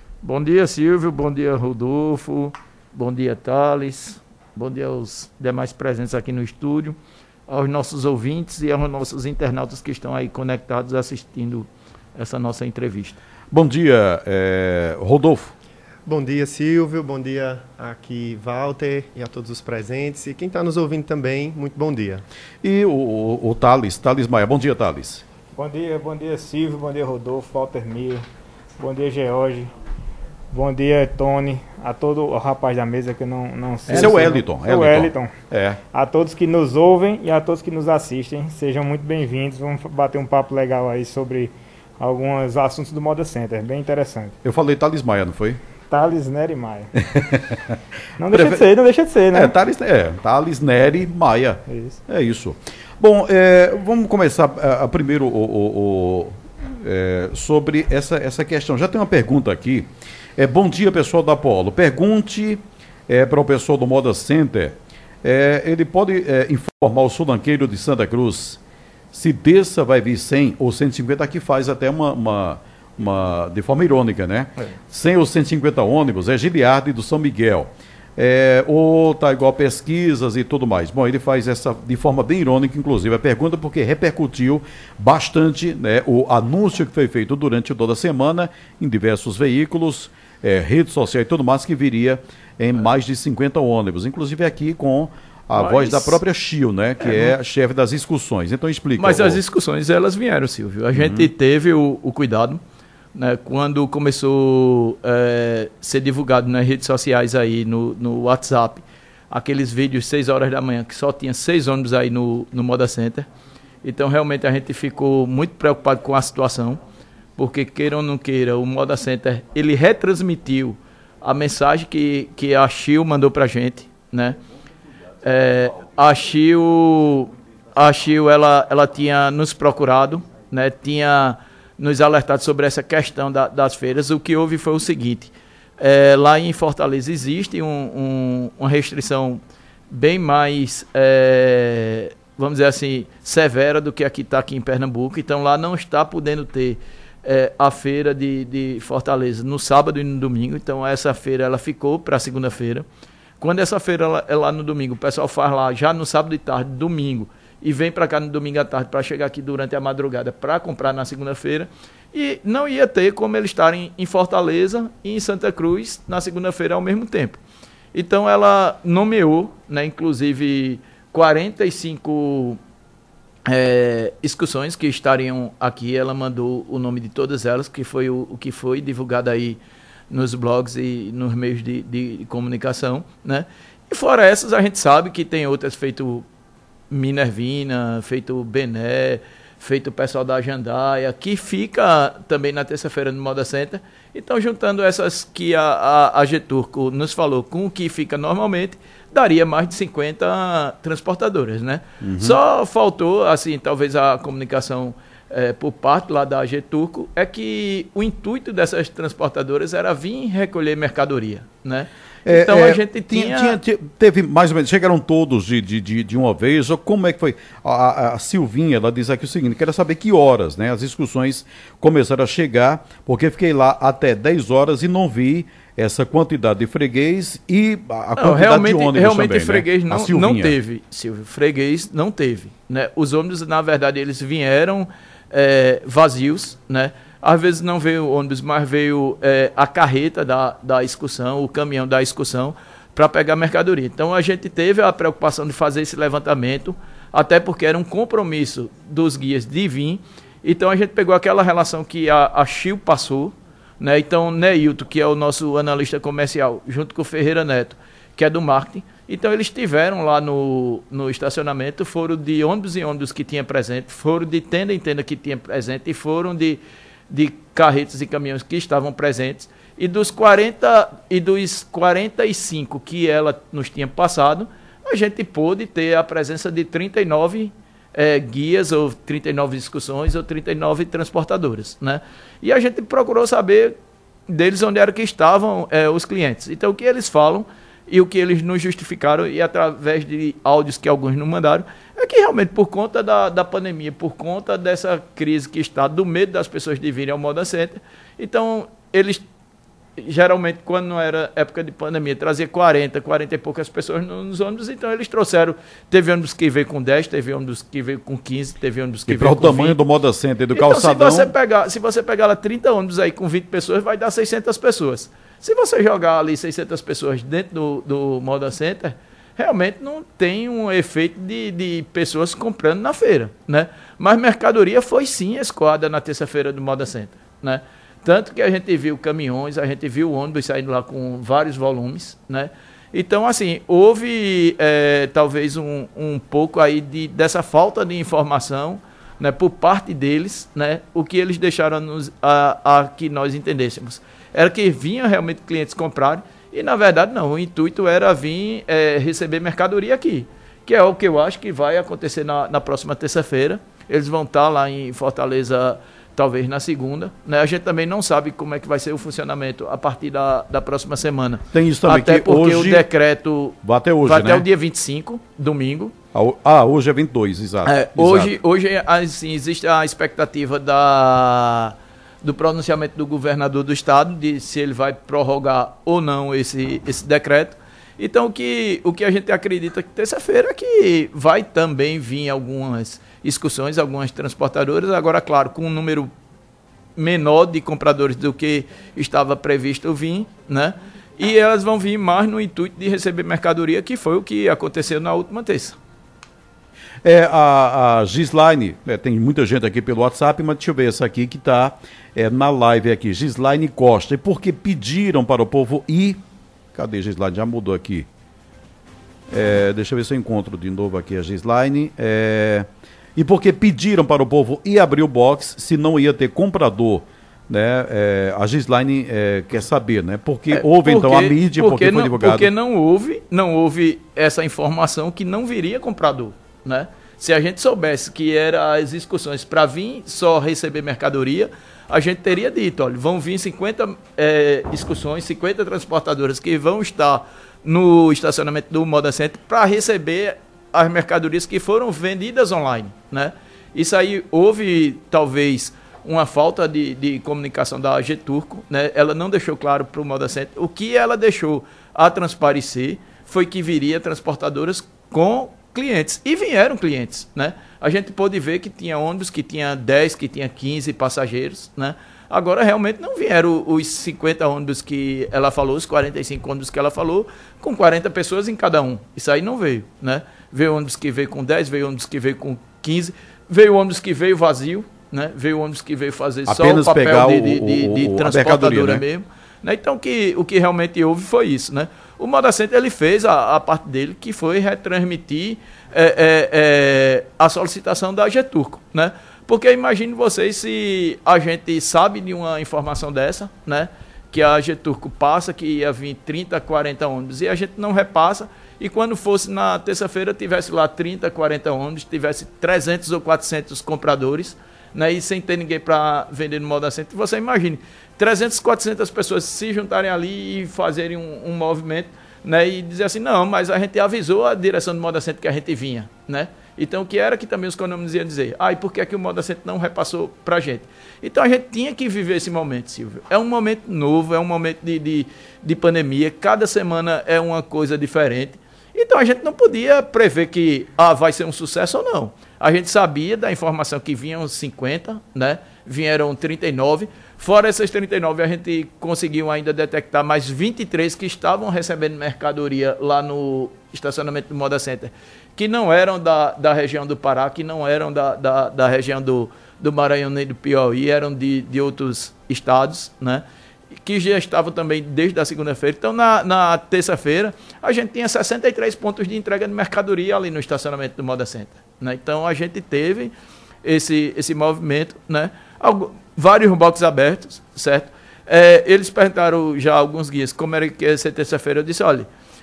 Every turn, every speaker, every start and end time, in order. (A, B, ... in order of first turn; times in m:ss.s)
0:00.2-0:07.0 A
0:07.5-0:13.2 A
0:13.5-0:15.5 B
0:16.0-0:22.2 C
0:22.6-0:25.2 B
0:25.5-0:28.2 D
0:28.8-0:29.7 D
0:30.5-0:35.3 D
0:33.9-0:35.8 B
0:35.9-0:44.3 D
0:44.4-0:45.6 B
0:45.9-0:46.9 D
0:47.0-0:48.6 B
0:48.2-0:49.5 D
0:49.3-1:08.6 B
0:51.7-0:52.0 D
1:09.1-1:39.4 B
1:35.5-1:36.2 A
1:37.0-1:37.3 A
1:39.0-1:42.6 A
1:40.9-1:41.3 B
1:43.1-1:53.2 A
1:53.8-1:56.8 A
1:57.4-2:04.4 A
2:05.2-2:32.8 A
2:33.4-2:47.4 A
2:47.9-2:52.6 A
2:53.5-2:59.6 A
3:00.1-3:06.2 A
3:06.9-3:33.6 A
3:22.0-3:22.4 B
3:32.2-3:50.5 B
3:48.2-4:43.7 A
4:44.3-4:59.2 A
5:00.0-5:09.8 A
5:09.0-5:11.3 B
5:10.5-6:05.9 A
6:01.5-6:02.8 B
6:03.6-6:04.4 B
6:06.1-6:08.3 B
6:07.6-6:26.1 A
6:27.0-6:35.8 A
6:37.0-6:46.2 B
6:46.7-6:48.1 B
6:49.3-7:02.5 B
7:00.5-9:13.4 A
7:56.5-7:59.0 B
9:14.0-9:23.3 A
9:23.8-9:32.3 A